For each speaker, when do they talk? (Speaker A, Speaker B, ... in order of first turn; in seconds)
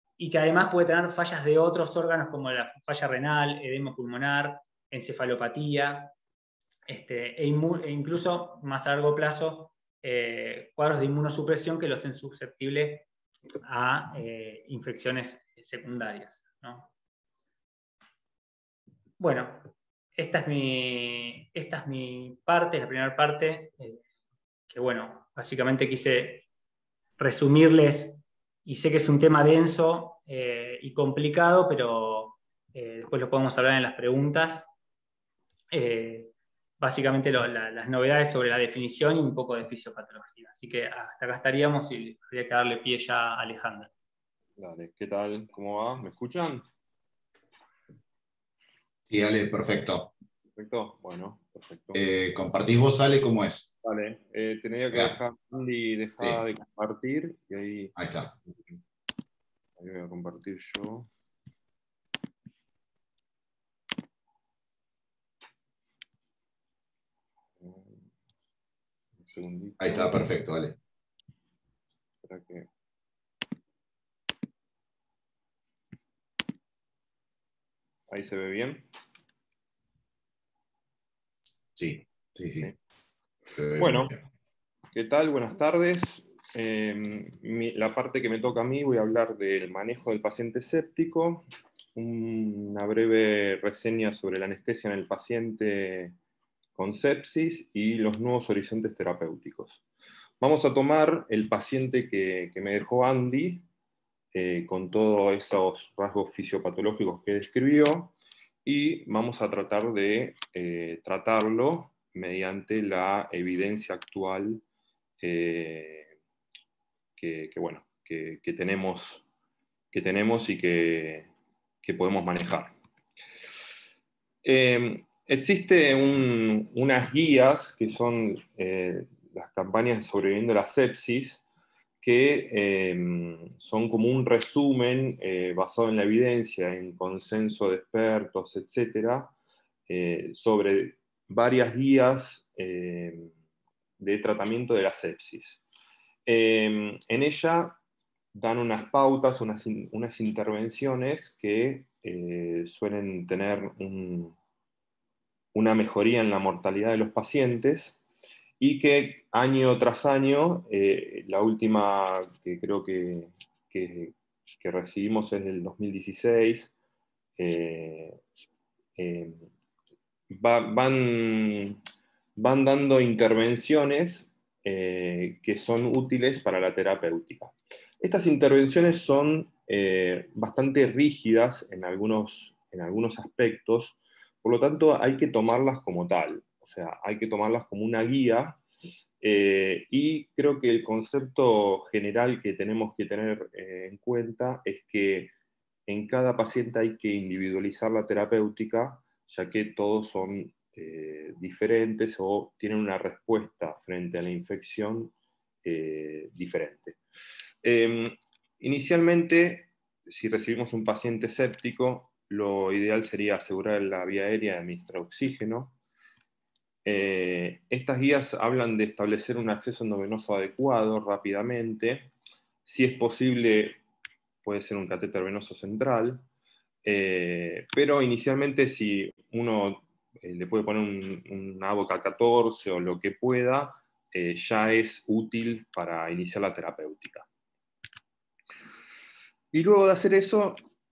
Speaker A: 0.2-6.1, 6.9-13.1, 13.6-16.9, 19.2-24.0, 24.7-26.4, 27.2-34.7, 35.7-43.9
Speaker B: 44.6-46.7, 50.6-52.1, 53.8-57.9, 58.5-58.8, 59.8-61.1, 67.6-68.1, 69.2-70.3, 72.2-72.7, 78.1-78.9, 83.8-84.1, 84.9-96.2, 96.8-99.8, 100.4-103.7, 104.3-114.6, 115.2-116.1, 117.2-119.2, 119.9-121.3, 121.8-122.8, 124.4-131.4, 132.0-139.3, 139.9-143.3, 144.0-145.6, 146.3-147.8, 148.3-154.3, 155.5-158.0, 158.6-166.7, 167.4-168.2, 169.0-169.5, 170.3-171.8, 172.4-188.6, 189.2-195.3, 195.9-207.0, 207.6-215.8, 216.8-222.1, 222.7-223.8, 224.4-226.3, 226.8-237.3, 239.5-240.6
Speaker C: 49.1-50.1, 52.0-53.7, 58.0-58.3, 69.8-70.8, 81.8-82.7, 83.5-84.2